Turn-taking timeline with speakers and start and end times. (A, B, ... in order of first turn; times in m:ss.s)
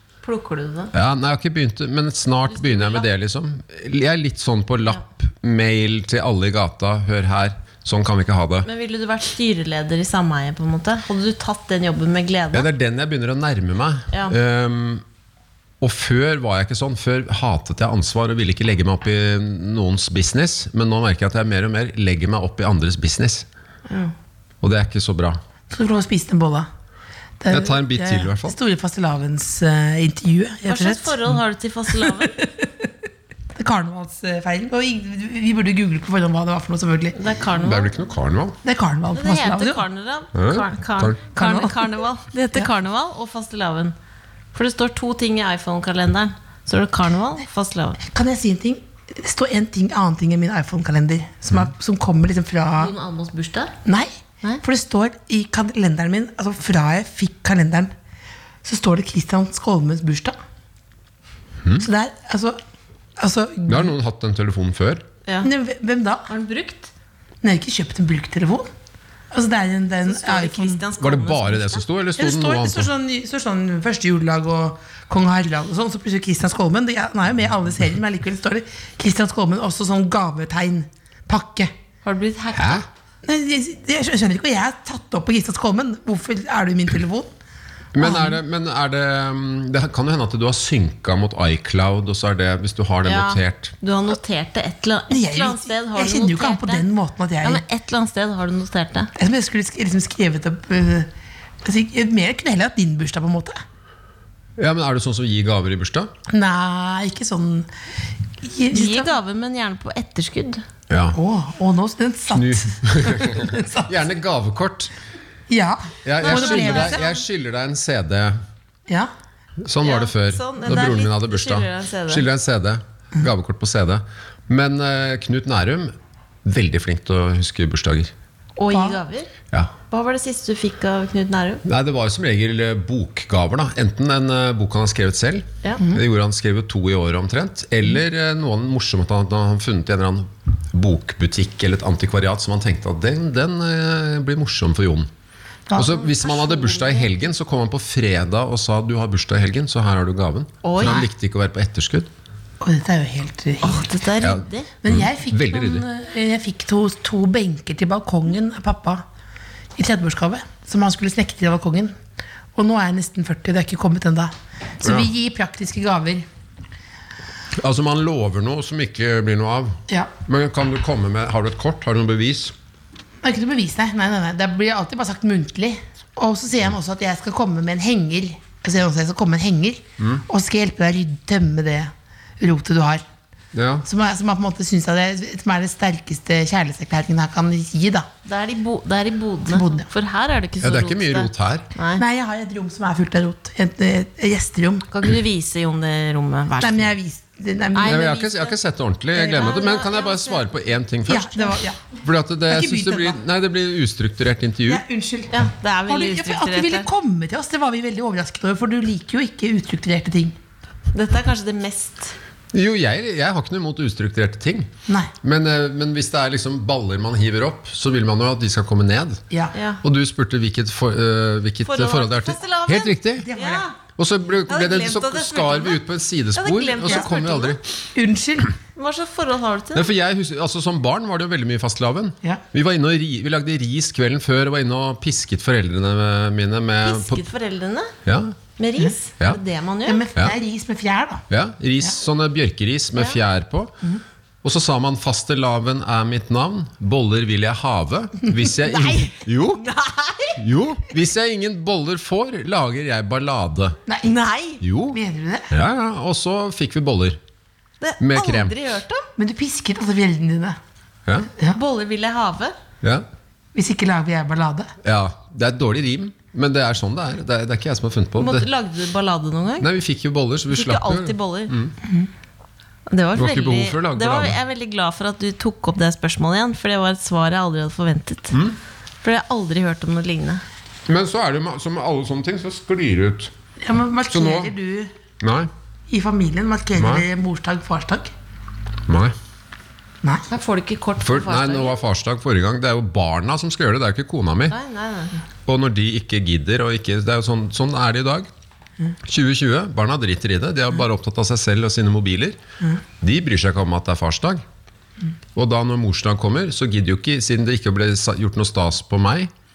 0:00.2-0:00.9 A
0:00.9-0:08.7 B
0:02.5-0:03.1 A
0:08.6-0:12.7 A
0:12.5-0:15.0 B
0:14.1-0:14.4 A
0:15.8-0:23.4 B
0:23.9-0:24.1 A
0:24.6-0:25.4 B
0:25.7-0:26.7 C
0:27.4-0:31.2 C
0:27.5-0:28.6 B
0:30.6-0:32.4 A
0:32.0-0:32.9 C
0:33.5-0:37.2 C
0:37.1-0:37.9 A
0:37.6-0:38.6 B
0:38.6-0:39.8 C
0:39.1-0:43.9 A
0:40.3-0:41.2 B
0:41.3-0:41.9 C
0:44.5-0:48.0 A
0:48.0-0:52.9 C
0:52.8-0:53.7 A
0:53.8-0:57.9 C
0:58.6-1:00.4 C
1:01.8-1:02.6 C
1:03.2-1:03.9 C
1:03.7-1:05.0 B
1:05.2-1:05.5 A
1:05.4-1:06.3 C
1:06.3-1:06.9 A
1:07.4-1:08.7 C
1:09.3-1:10.8 C
1:10.0-1:11.8 A
1:11.0-1:12.9 B
1:12.2-1:21.7 C
1:22.0-1:22.8 A
1:22.5-1:22.8 B
1:23.2-1:27.3 C
1:27.9-1:33.8 B
1:28.0-1:28.4 C
1:33.0-1:36.9 A
1:35.1-1:37.6 C
1:37.4-1:39.1 A
1:39.1-1:41.1 C
1:41.6-1:43.6 C
1:44.6-1:46.1 B
1:46.3-1:47.7 C
1:48.4-1:49.2 C
1:48.7-1:50.6 A
1:50.9-1:51.2 B
1:51.1-1:54.0 C
1:52.3-1:54.9 B
1:55.5-1:57.0 C
1:56.0-1:58.4 B
1:56.2-1:57.2 A
1:59.6-2:05.9 B
1:59.8-2:02.2 A
2:06.4-2:08.1 B
2:08.6-2:09.3 A
2:08.7-2:09.0 C
2:09.9-2:11.6 A
2:11.6-2:25.1 B
2:25.7-2:26.1 C
2:25.8-2:32.1 B
2:26.0-2:27.1 A
2:30.6-2:31.0 A
2:32.6-2:33.9 C
2:33.6-2:34.7 A
2:34.2-2:35.8 B
2:34.8-2:39.0 C
2:39.8-2:41.9 C
2:42.5-2:46.3 C
2:47.6-2:52.5 B
2:53.2-3:03.0 C
3:03.5-3:03.8 B
3:03.8-3:08.1 C
3:08.2-3:12.0 A
3:09.5-3:09.9 C
3:10.6-3:11.7 B
3:12.0-3:14.9 C
3:14.9-3:16.9 A
3:16.6-3:18.1 C
3:17.7-3:18.6 A
3:17.8-3:24.8 B
3:19.2-3:19.5 C
3:19.2-3:20.5 A
3:21.0-3:21.9 C
3:22.5-3:23.2 C
3:24.6-3:30.4 C
3:25.3-3:26.9 A
3:30.9-3:32.1 A
3:32.5-3:34.7 B
3:34.9-3:35.1 C
3:35.2-3:39.2 B
3:39.5-3:39.8 A
3:39.8-3:43.3 B
3:41.6-3:43.7 A
3:43.2-3:43.7 C
3:44.0-3:47.6 B
3:44.5-3:45.8 A
3:46.4-3:47.6 A
3:47.9-3:48.5 C
3:48.7-3:49.9 A
3:49.7-3:57.2 B
3:56.8-3:57.9 A
3:58.0-3:58.3 B
3:58.6-4:00.0 A
3:59.8-4:01.2 C
4:01.3-4:03.7 B
4:04.4-4:09.6 B
4:09.6-4:10.4 A
4:10.4-4:13.8 B
4:13.9-4:14.2 C
4:14.1-4:14.6 A
4:14.6-4:15.0 B
4:14.9-4:15.5 C
4:15.5-4:17.2 B
4:17.8-4:19.1 A
4:18.0-4:18.5 B
4:19.2-4:20.6 C
4:21.3-4:21.6 C
4:21.5-4:22.6 A
4:23.5-4:24.7 C
4:24.8-4:28.5 B
4:28.2-4:29.7 A
4:29.6-4:31.7 B
4:30.5-4:31.5 A
4:32.9-4:38.4 A
4:33.1-4:34.4 B
4:39.0-4:40.4 A
4:40.9-4:43.3 B
4:43.6-4:44.9 C
4:44.1-4:44.5 B
4:45.2-4:45.5 B
4:45.9-4:48.1 C
4:46.8-4:47.0 B
4:48.9-4:49.1 B
4:50.3-4:51.8 A
4:51.0-4:54.6 B
4:54.5-4:55.2 A
4:55.4-4:58.3 B
4:59.1-5:02.4 B
5:03.0-5:04.4 B
5:05.4-5:09.3 B